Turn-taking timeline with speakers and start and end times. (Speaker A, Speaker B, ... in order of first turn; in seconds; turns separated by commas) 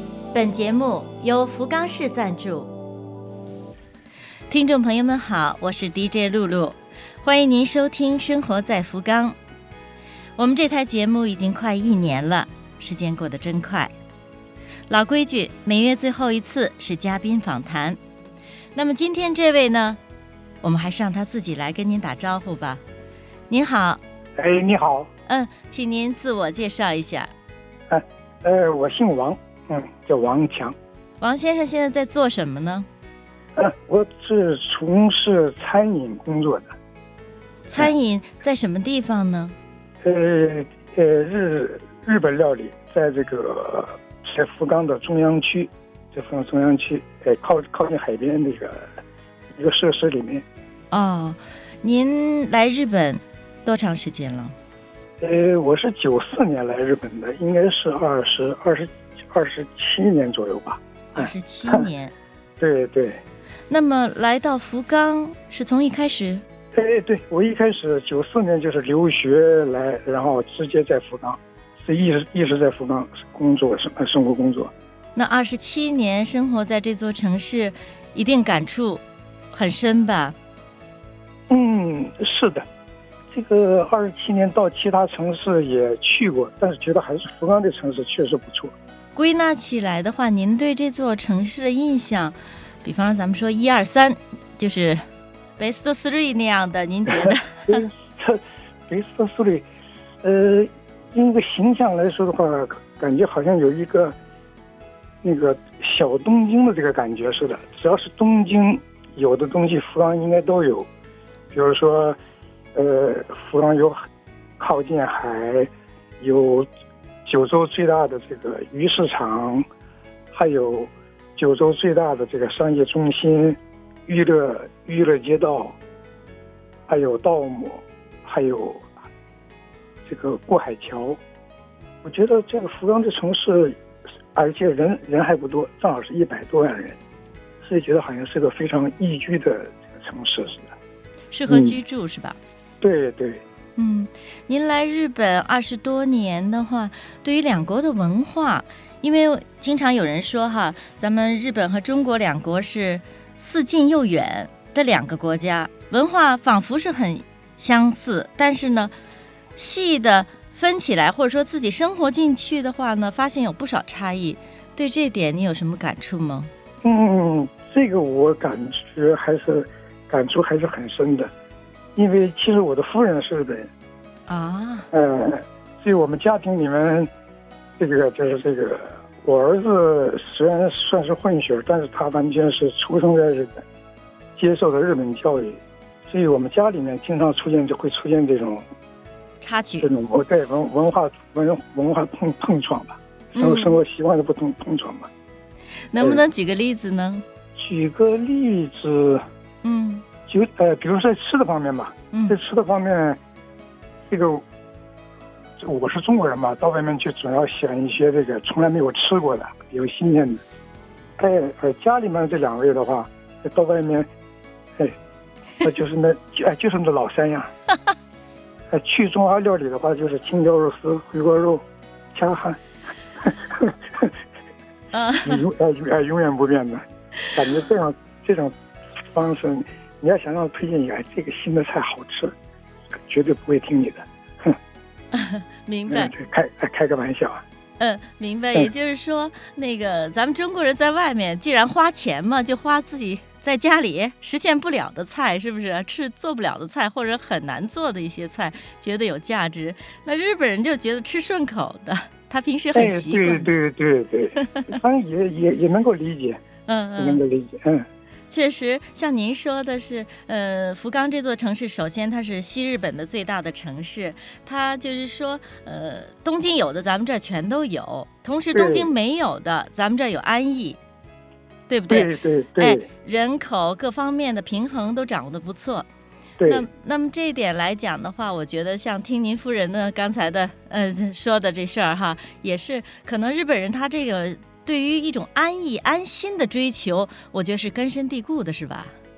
Speaker A: 0.3-2.7, Speaker A: 4.5-9.4, Speaker A: 10.4-13.9, Speaker A: 14.9-18.0, Speaker A: 18.7-20.0, Speaker A: 20.6-22.8, Speaker A: 23.5-24.0, Speaker B: 24.4-25.1, Speaker A: 25.3-27.3, Speaker B: 27.9-30.8, Speaker A: 31.2-32.9, Speaker B: 33.6-36.7, Speaker A: 37.7-39.5, Speaker B: 40.0-48.9, Speaker B: 49.5-50.5, Speaker A: 50.9-54.5, Speaker B: 55.2-61.9, Speaker A: 61.1-62.1, Speaker B: 62.6-63.2, Speaker A: 63.7-66.4, Speaker B: 66.8-74.7, Speaker A: 75.2-80.4, Speaker B: 81.5-82.7, Speaker B: 83.3-88.7, Speaker A: 89.2-95.0, Speaker A: 95.6-97.9, Speaker B: 97.2-99.7, Speaker B: 100.2-104.2, Speaker B: 105.2-110.9, Speaker B: 111.5-112.2, Speaker B: 112.8-114.1, Speaker B: 114.6-116.7, Speaker B: 117.3-119.7, Speaker B: 120.3-125.8, Speaker B: 126.9-128.9, Speaker B: 130.1-131.2, Speaker B: 132.0-133.8, Speaker B: 134.3-137.0, Speaker B: 137.6-140.7, Speaker A: 141.3-142.4, Speaker B: 141.5-141.8, Speaker B: 142.8-143.4, Speaker A: 143.8-158.9, Speaker A: 159.6-166.5, Speaker B: 166.8-171.3, Speaker B: 172.0-173.7, Speaker A: 174.3-174.9, Speaker B: 174.9-177.1, Speaker B: 177.8-183.6, Speaker B: 184.4-188.7, Speaker A: 189.4-189.9, Speaker B: 189.8-195.1, Speaker A: 193.3-193.8, Speaker A: 195.9-197.2, Speaker B: 196.0-196.2, Speaker B: 197.6-199.2, Speaker A: 199.6-200.1, Speaker B: 200.3-203.2, Speaker A: 202.1-202.4, Speaker B: 204.1-204.4, Speaker B: 205.6-210.4, Speaker B: 211.2-214.1, Speaker B: 215.6-217.5, Speaker B: 218.7-222.6, Speaker B: 223.2-224.1, Speaker A: 224.9-225.4, Speaker B: 225.2-228.5, Speaker B: 229.1-232.3, Speaker B: 233.0-234.6, Speaker A: 235.1-236.1, Speaker B: 235.9-237.4, Speaker A: 237.8-253.5, Speaker B: 252.7-256.4, Speaker A: 254.3-254.8, Speaker A: 256.7-257.2, Speaker B: 257.0-257.9, Speaker A: 258.3-270.8, Speaker B: 268.5-268.9, Speaker A: 271.7-275.9, Speaker B: 271.9-272.9, Speaker B: 276.4-276.7, Speaker A: 276.4-288.9